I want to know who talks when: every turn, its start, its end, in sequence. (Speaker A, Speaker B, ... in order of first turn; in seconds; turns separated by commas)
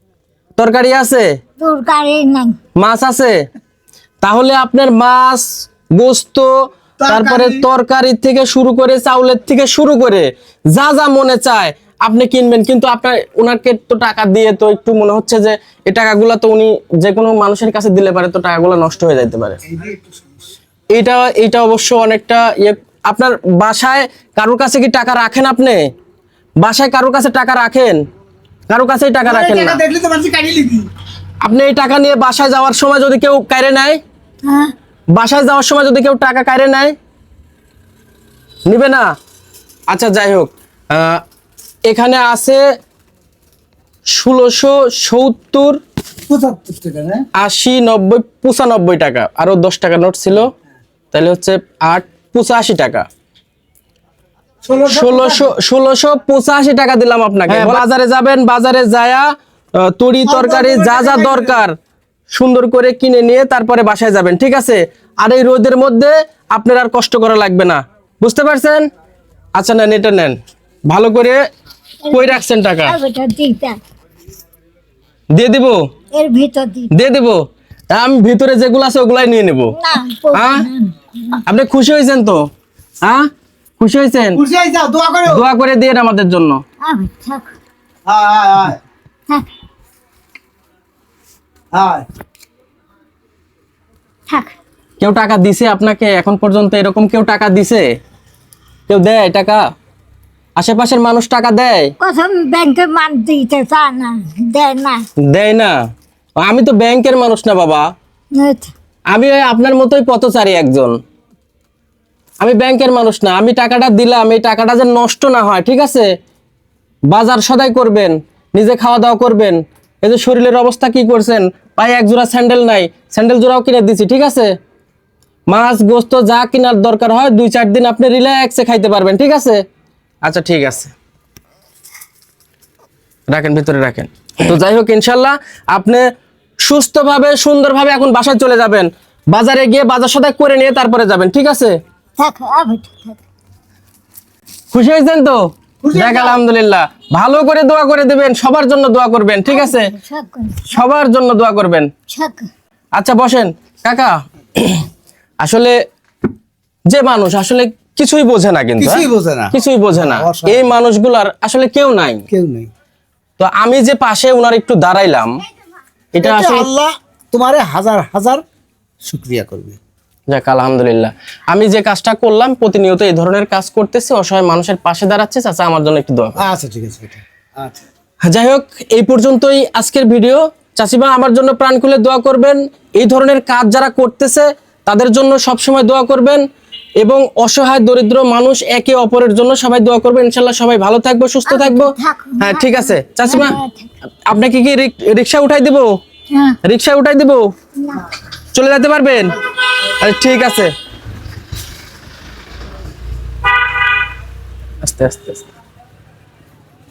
Speaker A: 0.6-1.3, Speaker B: 1.6-2.6, Speaker A: 2.8-3.4, Speaker A: 4.2-6.5, Speaker C: 7.0-7.6, Speaker A: 7.1-19.6, Speaker C: 19.7-20.3, Speaker A: 20.9-25.9, Speaker A: 26.6-28.0, Speaker A: 28.7-29.8, Speaker C: 29.2-30.9, Speaker A: 31.4-34.0, Speaker B: 34.5-34.7, Speaker A: 35.1-37.0, Speaker A: 38.7-39.1, Speaker A: 39.9-41.2, Speaker A: 41.9-42.6, Speaker A: 44.1-45.8, Speaker C: 46.3-47.2, Speaker A: 47.4-50.5, Speaker A: 51.1-53.1, Speaker C: 54.6-55.5, Speaker A: 54.9-61.8, Speaker C: 60.2-61.6, Speaker A: 62.3-68.9, Speaker A: 69.6-71.4, Speaker B: 72.0-73.8, Speaker A: 72.1-73.0, Speaker A: 75.3-75.8, Speaker B: 76.1-76.9, Speaker A: 76.9-79.8, Speaker B: 79.8-81.4, Speaker A: 80.3-80.7, Speaker A: 81.5-82.5, Speaker A: 83.0-84.4, Speaker C: 84.4-85.4, Speaker A: 85.3-86.6, Speaker B: 86.8-87.5, Speaker C: 88.1-88.8, Speaker C: 91.7-92.1, Speaker B: 94.3-94.6, Speaker A: 95.0-97.9, Speaker A: 98.9-99.6, Speaker A: 100.6-101.9, Speaker B: 102.0-105.0, Speaker A: 105.2-105.8, Speaker A: 106.4-107.9, Speaker B: 108.4-108.7, Speaker A: 109.1-111.0, Speaker A: 112.4-116.1, Speaker A: 117.1-124.5, Speaker A: 125.5-129.6, Speaker A: 130.2-130.9, Speaker A: 133.3-136.1, Speaker A: 136.6-141.8, Speaker B: 142.2-143.2, Speaker A: 144.7-145.4, Speaker C: 145.8-146.4, Speaker A: 145.9-149.9, Speaker B: 149.5-150.8, Speaker A: 150.7-151.9, Speaker B: 152.1-152.5, Speaker A: 153.0-154.8, Speaker A: 155.4-155.8, Speaker A: 156.9-162.2, Speaker C: 158.8-160.6, Speaker C: 162.3-162.7, Speaker A: 163.4-165.4, Speaker A: 166.1-166.7, Speaker C: 166.2-168.4, Speaker C: 169.0-169.8, Speaker A: 170.3-176.4, Speaker C: 176.4-177.8, Speaker A: 178.3-186.4, Speaker A: 187.0-193.6, Speaker B: 191.5-193.9, Speaker A: 194.3-195.9, Speaker B: 196.3-196.6, Speaker A: 196.6-197.4, Speaker B: 197.8-198.1, Speaker A: 198.6-199.4, Speaker A: 199.9-200.7, Speaker A: 204.8-205.5